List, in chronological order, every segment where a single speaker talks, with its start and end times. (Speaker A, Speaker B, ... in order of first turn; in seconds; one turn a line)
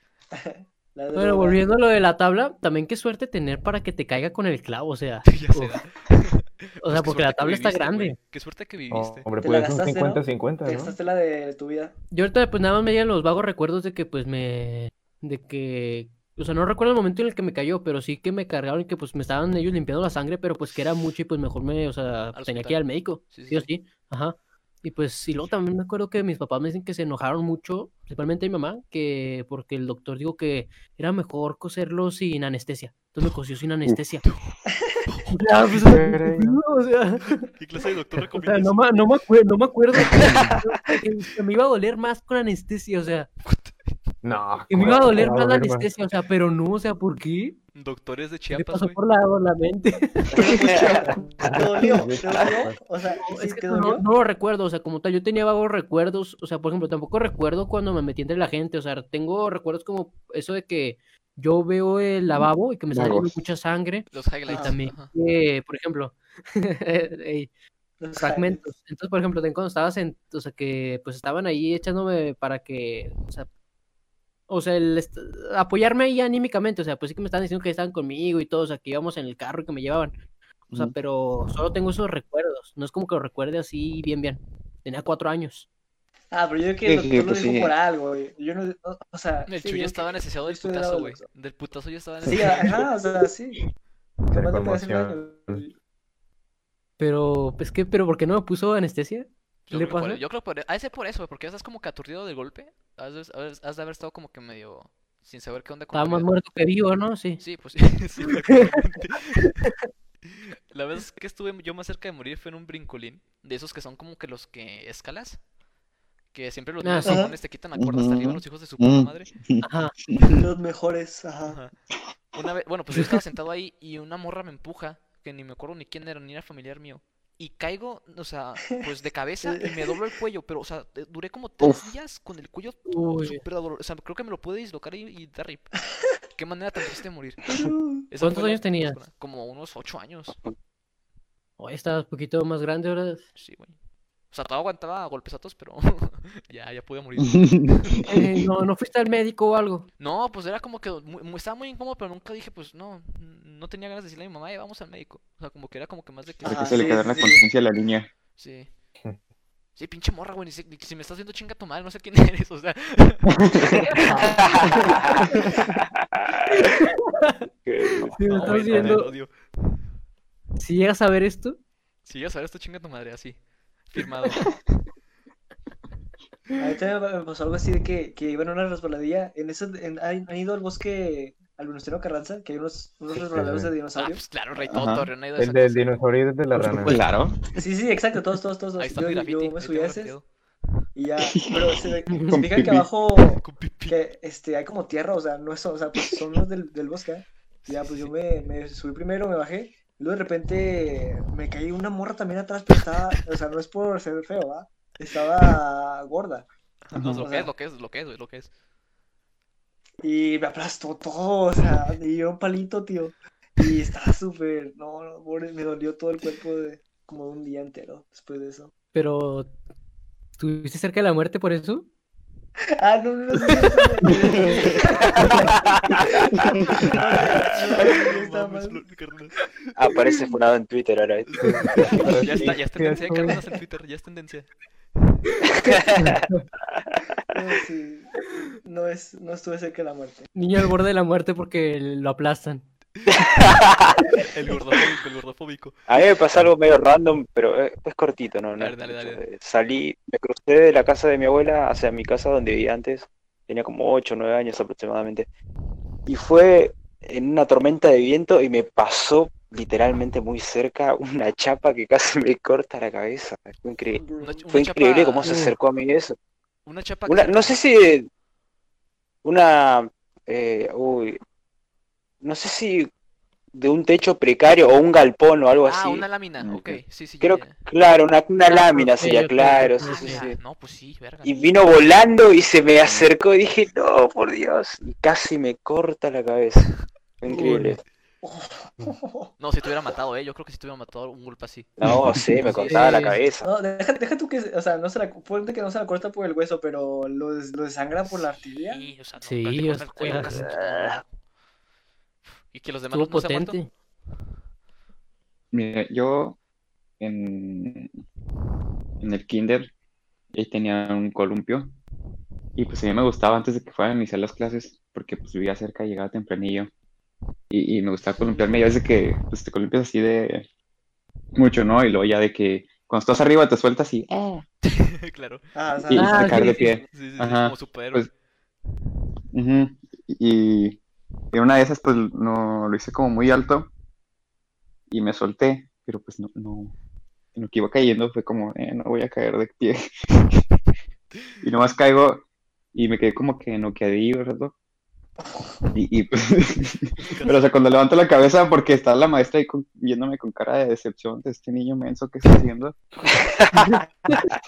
Speaker A: 0.3-1.6
Speaker B: 1.1-5.8
Speaker C: 5.3-9.3
Speaker B: 6.8-8.2
Speaker D: 8.9-11.0
Speaker A: 9.4-11.9
Speaker B: 12.1-34.2
Speaker C: 22.3-23.7
Speaker C: 35.1-35.4
Speaker B: 35.3-37.4
Speaker D: 35.8-36.6
Speaker C: 37.5-39.1
Speaker B: 38.3-43.3
Speaker C: 43.5-43.8
Speaker D: 44.2-45.9
Speaker B: 44.7-47.6
Speaker C: 47.8-49.0
Speaker B: 48.5-50.9
Speaker A: 50.3-54.0
Speaker E: 50.4-51.2
Speaker D: 51.4-52.8
Speaker B: 53.2-67.5
Speaker F: 62.4-63.3
Speaker C: 64.1-65.1
Speaker A: 64.5-64.8
Speaker A: 68.0-68.7
Speaker B: 68.2-73.5
Speaker B: 74.5-80.2
Speaker B: 80.7-85.7
Speaker A: 86.3-91.2
Speaker F: 86.8-87.7
Speaker C: 89.5-92.8
Speaker A: 92.3-93.6
Speaker D: 94.3-95.7
Speaker A: 94.3-95.8
Speaker B: 97.0-100.2
Speaker C: 99.7-106.3
Speaker B: 105.9-107.4
Speaker C: 107.4-109.5
Speaker C: 110.2-115.4
Speaker C: 116.3-119.3
Speaker B: 116.8-117.3
Speaker A: 117.0-117.3
Speaker F: 117.8-120.4
Speaker B: 119.6-119.9
Speaker A: 120.3-121.6
Speaker C: 121.5-121.7
Speaker C: 122.3-135.7
Speaker B: 122.9-123.2
Speaker A: 129.4-129.8
Speaker F: 131.6-131.9
Speaker B: 132.9-133.4
Speaker C: 136.3-137.4
Speaker A: 137.5-138.1
Speaker C: 138.1-140.4
Speaker B: 138.2-139.0
Speaker B: 141.6-143.3
Speaker C: 143.4-143.8
Speaker C: 144.3-148.0
Speaker F: 147.3-148.2
Speaker B: 148.1-149.9
Speaker C: 150.0-156.7
Speaker A: 156.4-157.4
Speaker F: 156.4-158.1
Speaker C: 158.4-158.7
Speaker C: 159.8-163.4
Speaker F: 163.4-163.9
Speaker B: 163.9-164.2
Speaker C: 164.0-164.6
Speaker E: 164.4-166.7
Speaker B: 166.6-167.4
Speaker E: 167.7-168.5
Speaker B: 168.1-169.1
Speaker C: 168.3-169.3
Speaker B: 170.6-171.6
Speaker C: 172.1-173.4
Speaker C: 173.9-174.5
Speaker A: 176.6-184.2
Speaker D: 183.1-183.7
Speaker C: 184.0-185.9
Speaker F: 184.7-185.1
Speaker D: 185.4-187.0
Speaker F: 186.6-187.5
Speaker A: 187.6-190.2
Speaker C: 188.8-190.3
Speaker A: 190.9-206.5
Speaker F: 191.2-192.9
Speaker B: 192.1-192.5
Speaker C: 193.3-194.0
Speaker C: 197.6-198.1
Speaker C: 206.9-208.5
Speaker A: 207.1-207.5
Speaker A: 210.0-218.7
Speaker B: 218.9-219.5
Speaker B: 220.4-221.9
Speaker A: 222.8-225.5
Speaker E: 225.2-226.1
Speaker A: 226.8-228.9
Speaker C: 226.9-229.4
Speaker E: 229.8-231.4
Speaker C: 231.3-234.5
Speaker D: 231.4-233.4
Speaker E: 235.6-236.2
Speaker B: 236.0-236.4
Speaker A: 237.3-238.1
Speaker A: 238.6-240.3
Speaker B: 240.3-242.7
Speaker E: 243.1-244.1
Speaker C: 244.2-245.8
Speaker E: 245.9-255.3
Speaker C: 248.6-249.2
Speaker E: 256.1-264.0
Speaker A: 263.9-264.5
Speaker C: 264.2-265.4
Speaker E: 264.5-266.2
Speaker B: 265.2-265.5
Speaker C: 266.6-267.6
Speaker E: 267.1-268.1
Speaker E: 269.2-271.2
Speaker E: 272.2-272.9
Speaker E: 273.6-276.1
Speaker C: 275.6-277.6
Speaker F: 276.4-276.8
Speaker E: 277.2-280.4
Speaker B: 278.5-280.3
Speaker C: 279.9-281.4
Speaker E: 281.2-286.7
Speaker E: 287.2-287.8
Speaker B: 287.3-287.8
Speaker A: 288.2-289.3
Speaker C: 289.4-291.7
Speaker E: 291.8-293.5
Speaker C: 292.4-293.0
Speaker B: 292.7-293.2
Speaker A: 293.4-298.9
Speaker C: 298.1-301.1
Speaker B: 299.2-300.5
Speaker E: 300.1-301.0
Speaker C: 302.5-303.6
Speaker B: 302.9-303.7
Speaker F: 305.5-306.4
Speaker F: 307.0-307.9
Speaker F: 309.0-309.7
Speaker F: 310.3-311.8
Speaker F: 312.6-316.7
Speaker F: 317.5-320.5
Speaker F: 321.4-324.4
Speaker C: 324.6-325.4
Speaker A: 325.6-326.6
Speaker F: 325.9-328.1
Speaker B: 325.9-326.7
Speaker C: 326.3-328.1
Speaker F: 329.3-330.8
Speaker F: 331.3-333.7
Speaker F: 334.9-336.7
Speaker F: 337.4-340.4
Speaker F: 341.4-344.6
Speaker F: 345.7-352.8
Speaker C: 347.0-347.4